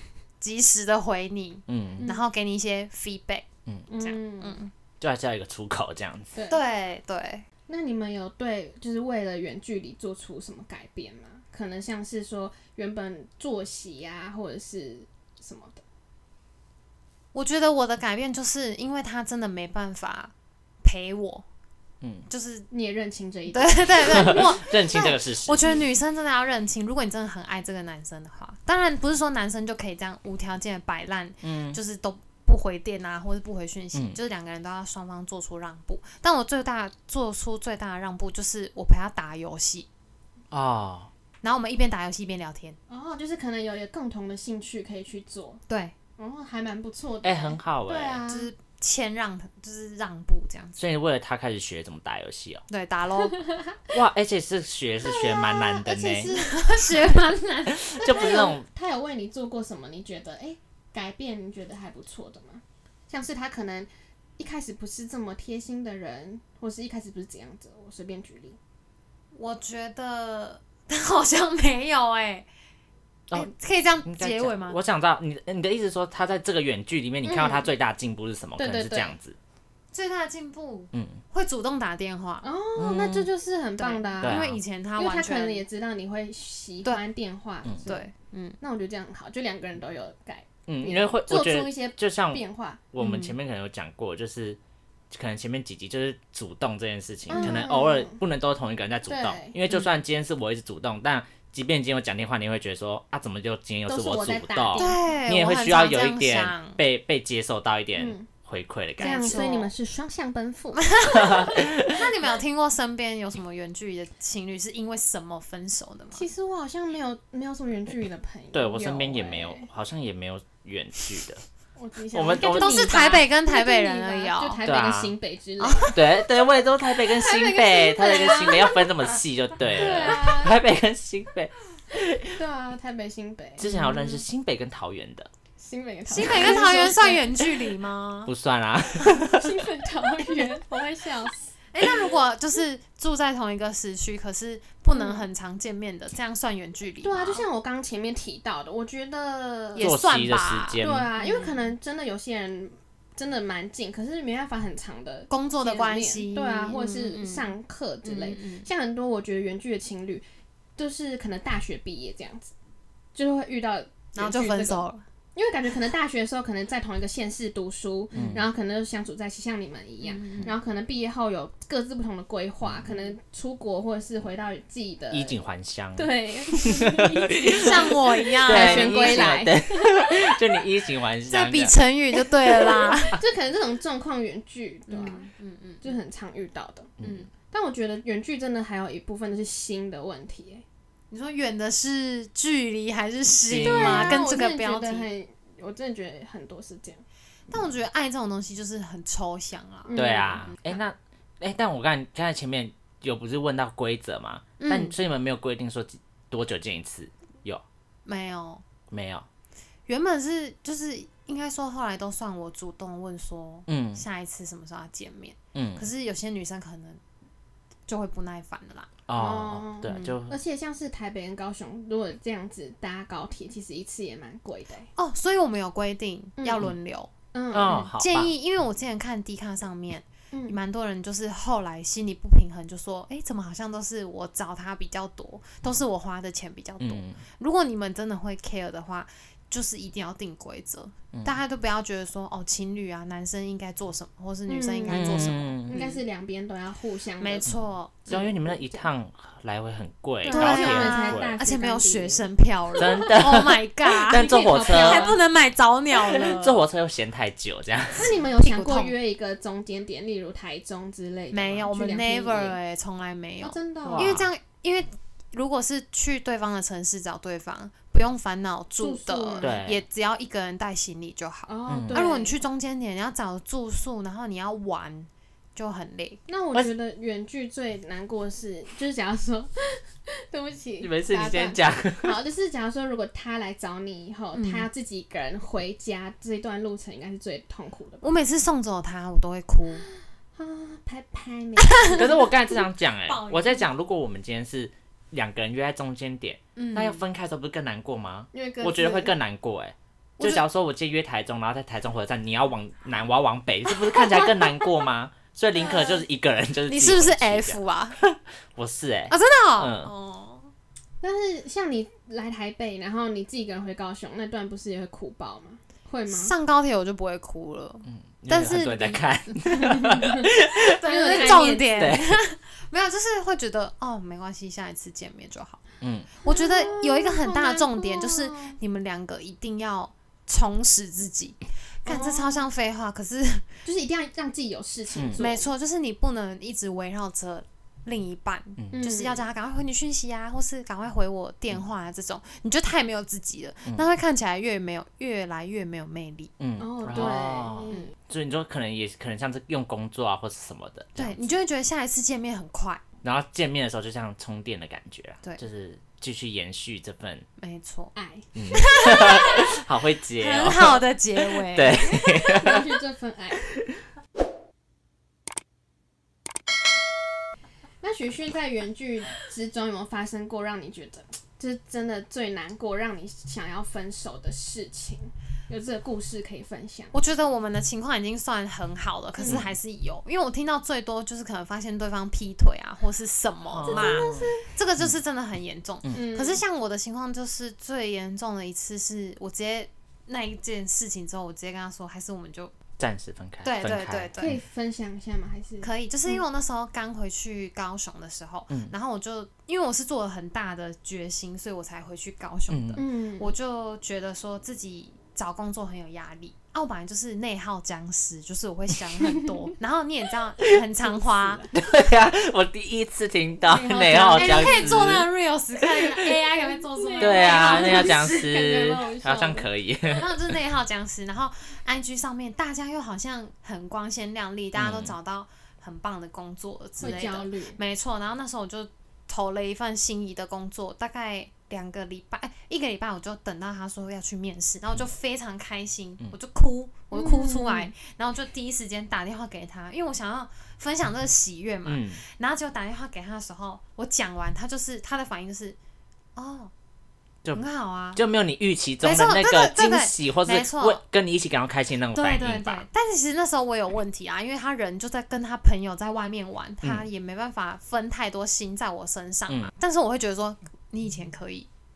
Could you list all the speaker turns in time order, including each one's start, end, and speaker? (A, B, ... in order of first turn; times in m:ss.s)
0:00.4-0:04.7 A
0:01.7-0:02.0 B
0:02.0-0:02.2 C
0:03.9-0:04.6 C
0:05.0-0:06.3 B
0:06.3-0:06.6 C
0:06.5-0:07.4 A
0:07.7-0:15.8 C
0:17.3-0:21.4 A
0:22.3-0:22.7 A
0:22.7-0:24.5 C
0:23.5-0:39.9 A
0:24.1-0:25.8 B
0:31.4-0:31.8 B
0:40.5-0:41.1 B
0:41.4-0:42.8 A
0:42.9-0:45.6 C
0:45.7-0:45.9 A
0:46.2-0:48.5 C
0:47.2-0:48.2 B
0:48.3-0:50.8 A
0:50.8-0:52.6 B
0:52.7-0:53.4 A
0:53.2-0:53.8 C
0:53.9-0:56.3 B
0:55.0-0:57.2 C
0:56.3-0:58.5 A
0:57.7-0:58.6 B
0:58.0-1:08.6 C
1:09.3-1:12.5 A
1:13.3-1:14.8 A
1:14.0-1:19.4 B
1:17.2-1:17.7 C
1:18.6-1:19.2 C
1:19.9-1:22.5 A
1:20.9-1:21.2 B
1:22.4-1:28.0 C
1:22.8-1:23.3 B
1:23.8-1:25.6 A
1:24.2-1:24.6 B
1:27.8-1:28.6 A
1:28.6-1:32.8 C
1:30.7-1:34.6 B
1:33.0-1:33.3 A
1:35.1-1:49.5 B
1:37.3-1:38.2 C
1:37.3-1:37.6 A
1:39.1-1:39.6 C
1:43.9-1:45.1 C
1:44.7-1:46.8 A
1:48.0-1:48.3 C
1:49.0-1:49.7 A
1:49.0-1:51.5 C
1:50.8-1:56.2 A
1:51.2-1:52.0 B
1:56.1-1:59.7 C
1:58.5-2:01.4 B
2:01.8-2:06.1 C
2:02.1-2:02.9 B
2:02.4-2:04.6 A
2:04.6-2:05.1 B
2:05.6-2:06.0 A
2:05.9-2:12.4 B
2:07.0-2:08.8 C
2:09.7-2:10.6 C
2:12.3-2:13.7 C
2:13.6-2:15.3 B
2:13.6-2:14.2 A
2:15.6-2:17.7 C
2:16.1-2:18.3 A
2:16.2-2:16.5 B
2:18.2-2:19.6 B
2:19.1-2:21.5 C
2:21.7-2:27.4 A
2:24.9-2:25.3 C
2:27.0-2:29.9 C
2:29.7-2:31.7 A
2:29.8-2:31.1 B
2:30.8-2:40.2 C
2:35.3-2:37.5 A
2:38.0-2:38.7 A
2:40.8-2:42.5 C
2:43.1-2:44.8 C
2:44.1-2:45.0 A
2:45.3-2:55.4 C
2:48.1-2:48.4 A
2:48.1-2:48.5 B
2:50.0-2:50.5 A
2:52.6-2:53.0 B
2:55.1-3:01.8 B
2:55.9-3:00.4 C
2:57.5-2:59.4 A
3:01.3-3:03.2 A
3:02.5-3:05.3 C
3:04.9-3:05.9 A
3:05.8-3:06.9 C
3:07.0-3:07.3 B
3:07.0-3:07.3 A
3:07.5-3:10.6 C
3:11.1-3:15.1 A
3:13.4-3:14.2 B
3:13.6-3:17.0 C
3:17.5-3:20.7 A
3:19.8-3:20.5 C
3:19.9-3:27.6 B
3:24.6-3:25.0 A
3:28.0-3:28.6 A
3:28.9-3:29.3 B
3:29.9-3:37.0 A
3:33.7-3:34.0 B
3:35.5-3:35.8 B
3:37.9-3:38.9 A
3:39.1-3:40.4 B
3:39.2-3:44.9 C
3:39.9-3:40.1 A
3:45.0-3:47.1 A
3:46.4-3:46.7 C
3:47.3-3:47.9 C
3:47.5-3:48.3 B
3:47.6-4:06.0 A
3:50.3-3:50.6 C
3:56.8-3:57.2 B
4:04.5-4:07.5 C
4:04.9-4:05.8 B
4:07.2-4:08.5 A
4:07.5-4:11.4 B
4:08.1-4:08.6 C
4:10.2-4:13.4 C
4:10.3-4:16.6 A
4:12.8-4:15.2 B
4:14.0-4:15.2 C
4:15.9-4:18.1 B
4:17.9-4:22.6 C
4:18.0-4:18.9 A
4:21.3-4:36.2 A
4:23.4-4:24.2 C
4:23.8-4:24.3 B
4:28.8-4:29.6 C
4:29.4-4:29.8 B
4:31.5-4:32.4 C
4:31.7-4:32.0 B
4:36.3-4:48.1 C
4:40.8-4:42.2 B
4:44.3-4:44.7 A
4:48.0-4:49.8 A
4:50.4-4:52.3 C
4:51.7-4:52.0 A
4:51.9-5:09.9 B
4:53.0-4:53.7 A
4:56.6-4:57.0 A
4:58.3-4:59.1 C
5:04.0-5:04.7 C
5:05.7-5:05.9 C
5:06.7-5:08.0 A
5:09.1-5:10.5 A
5:11.0-5:16.3 C
5:16.1-5:19.5 A
5:17.8-5:22.1 B
5:19.6-5:22.0 C
5:20.7-5:25.6 A
5:25.8-5:26.1 B
5:26.2-5:33.5 A
5:26.2-5:28.6 C
5:31.8-5:32.4 C
5:33.6-5:35.5 C
5:34.9-5:35.2 B
5:35.2-5:46.3 A
5:38.7-5:39.2 C
5:46.4-5:51.2 B
5:46.6-5:47.9 C
5:46.9-5:47.9 A
5:51.0-5:52.8 A
5:53.0-5:57.2 B
5:57.4-5:57.9 A
5:57.9-5:58.3 C
5:58.3-6:02.6 B
5:58.5-5:59.4 A
6:00.2-6:02.3 A
6:02.0-6:03.4 C
6:07.8-6:16.9 C
6:16.9-6:32.5 A
6:19.2-6:19.4 C
6:19.2-6:19.5 B
6:23.5-6:24.9 B
6:23.6-6:24.5 C
6:25.9-6:26.4 C
6:32.8-6:34.3 B
6:33.4-6:34.4 A
6:34.2-6:36.2 C
6:35.6-6:51.4 A
6:42.5-6:42.8 B
6:42.8-6:43.3 C
6:50.8-6:51.5 C
6:51.5-6:55.1 B
6:53.5-6:54.9 C
6:53.8-6:58.4 A
6:56.4-6:59.5 C
6:57.0-7:00.1 B
6:59.9-7:25.6 A
7:04.5-7:04.9 B
7:06.8-7:07.6 C
7:16.9-7:17.7 C
7:21.6-7:22.0 B
7:26.2-7:26.5 A
7:27.3-7:28.0 A
7:27.9-7:32.6 B
7:28.8-7:30.8 A
7:31.9-7:41.5 A
7:36.6-7:36.9 B